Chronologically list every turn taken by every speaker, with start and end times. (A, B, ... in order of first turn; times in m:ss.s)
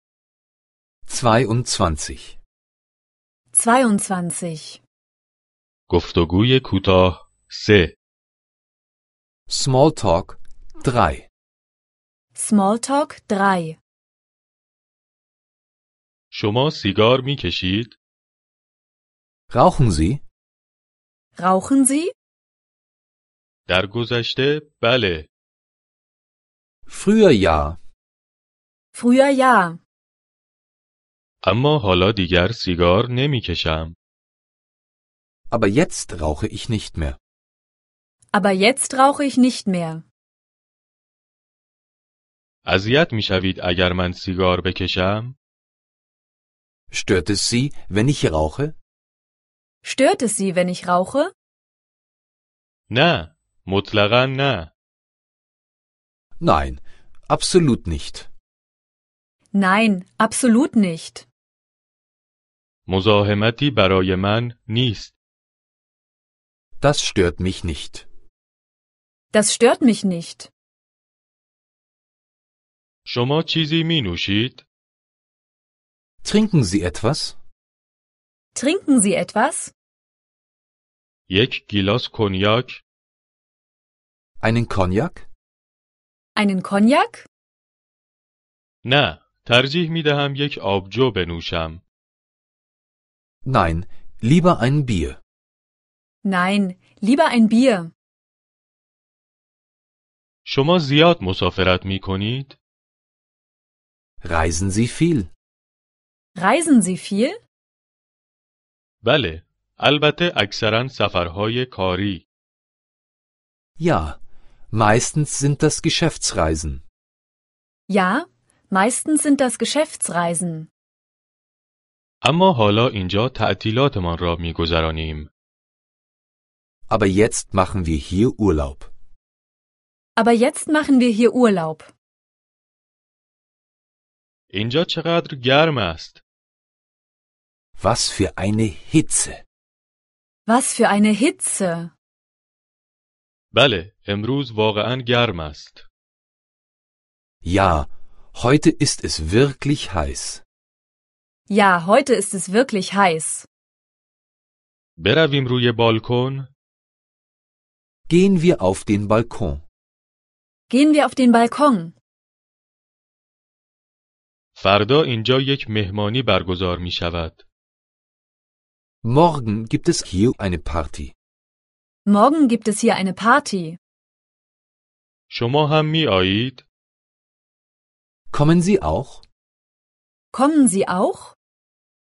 0:01.1-0:02.4 A
0:03.5-0:04.8 B
0:05.9-0:07.9 C
0:09.5-0:11.2 A
0:12.3-0:13.8 B
0:16.3-0:18.0 C
0:19.5-0:20.2 A
0:21.4-0:22.1 B
0:23.7-0:25.3 C
0:26.9-0:27.8 A
0:28.9-0:29.8 B
0:31.4-0:33.9 C
0:35.5-0:37.2 A
0:38.3-0:40.0 B
0:42.6-0:45.4 C
0:46.9-0:48.8 A
0:49.8-0:51.3 B
0:52.9-0:54.7 C
0:56.4-0:58.3 A
0:59.5-1:01.3 B
1:02.9-1:05.2 C
1:06.8-1:08.1 A
1:09.3-1:10.5 B
1:13.1-1:14.6 C
1:16.2-1:17.4 A
1:18.5-1:19.7 B
1:21.3-1:22.8 C
1:24.4-1:25.3 A
1:26.3-1:27.3 B
1:28.8-1:31.8 C
1:33.4-1:35.2 A
1:36.2-1:37.9 B
1:40.4-1:42.6 C
1:44.2-1:45.3 A
1:46.4-1:47.4 B
1:49.0-1:52.2 C
1:53.8-1:54.2 A
1:54.7-1:56.8 A
1:57.9-2:00.7 B
2:02.2-2:05.3 C
2:06.9-2:08.9 A
2:10.2-2:11.9 B
2:14.5-2:16.2 C
2:17.8-2:19.4 A
2:20.4-2:21.9 B
2:23.5-2:25.8 C
2:27.4-2:30.4 A
2:31.5-2:33.5 B
2:35.0-2:36.5 C
2:38.1-2:39.6 A
2:40.7-2:41.9 B
2:44.6-2:47.4 C
2:49.0-2:51.1 A
2:52.0-2:53.8 B
2:55.3-2:56.6 C
2:58.3-2:59.2 A
3:00.3-3:01.4 B